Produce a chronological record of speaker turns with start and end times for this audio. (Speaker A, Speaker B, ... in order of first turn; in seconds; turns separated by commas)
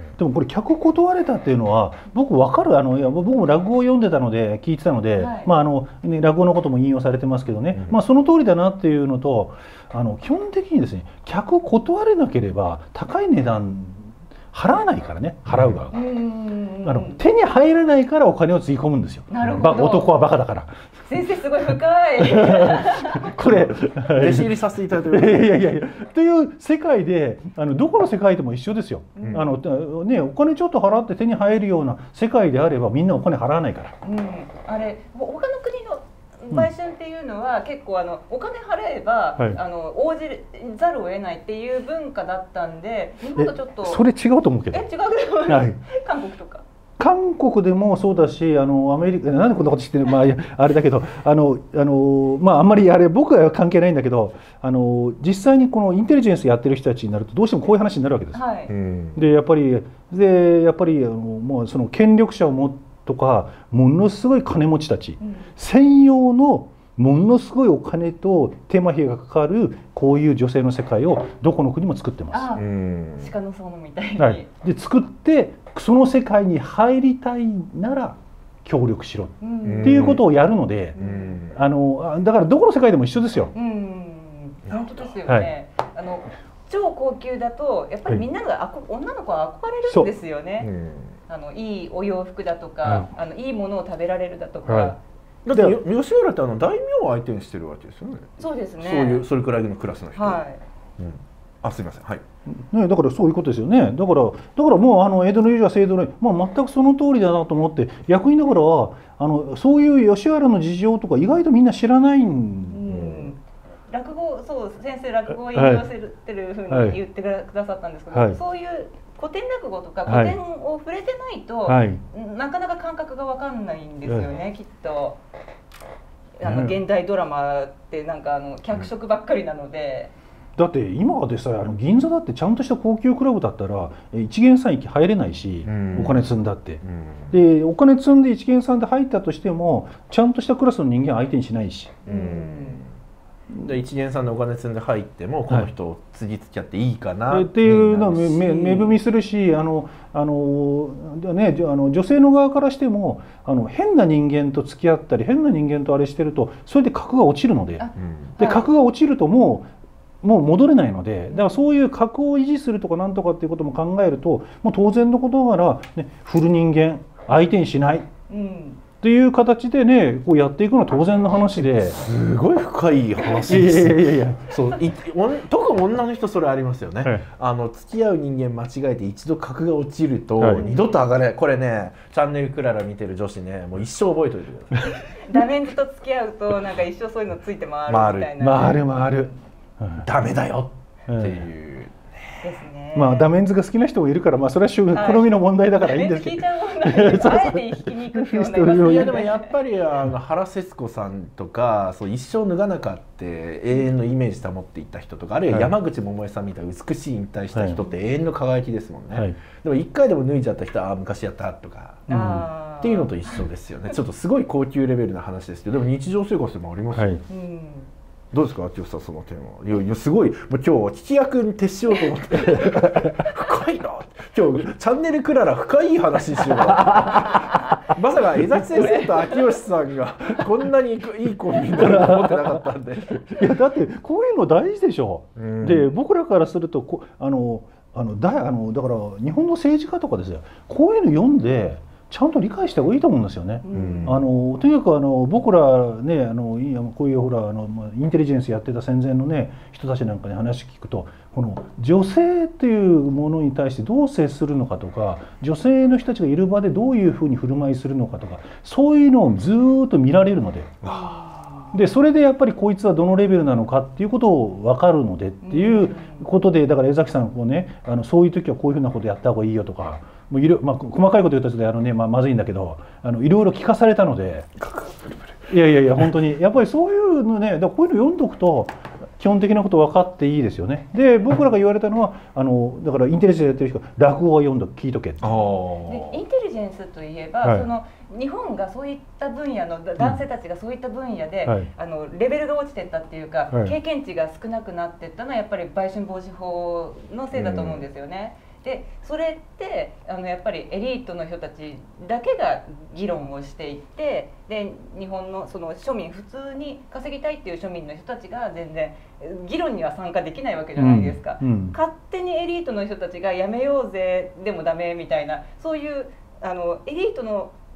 Speaker A: 0.2-16.0, Speaker B: 5.2-5.5, Speaker C: 15.5-15.8, Speaker B: 15.9-17.2, Speaker A: 16.8-20.7, Speaker B: 19.3-20.1, Speaker B: 21.1-23.6, Speaker A: 22.2-33.9, Speaker C: 24.1-25.6, Speaker B: 29.2-29.5, Speaker C: 29.2-29.5, Speaker B: 34.0-44.0, Speaker A: 43.4-44.8, Speaker B: 44.7-46.6, Speaker A: 45.5-45.8, Speaker A: 47.0-58.4, Speaker B: 58.3-58.7, Speaker C: 58.7-59.2, Speaker A: 59.1-72.6, Speaker B: 65.2-65.5, Speaker B: 72.3-72.7, Speaker C: 72.5-73.3, Speaker B: 73.2-74.5, Speaker A: 74.2-83.5, Speaker B: 79.4-80.1, Speaker C: 79.6-80.2, Speaker B: 81.0-81.4, Speaker C: 81.0-81.5, Speaker B: 83.5-90.7, Speaker A: 85.3-85.5, Speaker C: 90.6-91.1, Speaker B: 91.3-95.0, Speaker A: 92.8-93.1, Speaker A: 94.7-94.9, Speaker C: 95.5-100.4, Speaker A: 95.5-95.8, Speaker B: 98.4-99.2, Speaker B: 100.2-100.6, Speaker C: 101.0-102.2, Speaker A: 102.6-112.9, Speaker B: 112.7-125.2, Speaker C: 112.9-113.3, Speaker A: 115.5-115.9, Speaker A: 116.7-117.0, Speaker A: 118.1-118.4, Speaker A: 120.1-120.4, Speaker A: 121.7-122.0, Speaker B: 126.4-130.1, Speaker A: 126.5-126.8, Speaker A: 130.6-142.0, Speaker C: 135.7-136.3, Speaker C: 136.8-137.3, Speaker B: 142.1-142.8, Speaker C: 142.1-142.9, Speaker C: 143.6-148.6, Speaker A: 147.3-157.9, Speaker B: 148.4-149.0, Speaker B: 157.8-158.7, Speaker C: 158.0-158.3, Speaker A: 158.4-159.7, Speaker A: 160.2-168.1, Speaker B: 161.3-161.7, Speaker B: 168.3-168.8, Speaker A: 169.0-172.0, Speaker C: 171.6-184.9, Speaker A: 173.5-174.6, Speaker B: 180.5-180.9, Speaker B: 185.0-189.0, Speaker C: 187.9-188.8, Speaker A: 188.4-190.1, Speaker C: 190.0-192.4, Speaker A: 191.1-191.4, Speaker B: 192.4-193.3, Speaker A: 192.9-199.2, Speaker B: 194.9-199.5, Speaker C: 198.8-212.2, Speaker A: 207.5-207.8, Speaker A: 212.1-212.5, Speaker B: 212.1-213.4, Speaker C: 212.8-217.2, Speaker A: 216.9-217.2, Speaker B: 217.3-217.9, Speaker C: 218.3-233.4, Speaker B: 228.8-229.4, Speaker A: 231.8-232.6, Speaker A: 233.3-260.8, Speaker C: 235.4-235.9, Speaker B: 243.7-244.1, Speaker C: 243.7-244.2, Speaker C: 260.8-261.2, Speaker B: 260.9-261.7, Speaker A: 261.7-274.5, Speaker B: 265.4-266.3, Speaker C: 274.6-275.4, Speaker A: 275.5-285.4, Speaker C: 285.2-286.2, Speaker B: 285.9-317.5, Speaker C: 297.3-297.9, Speaker A: 310.8-311.8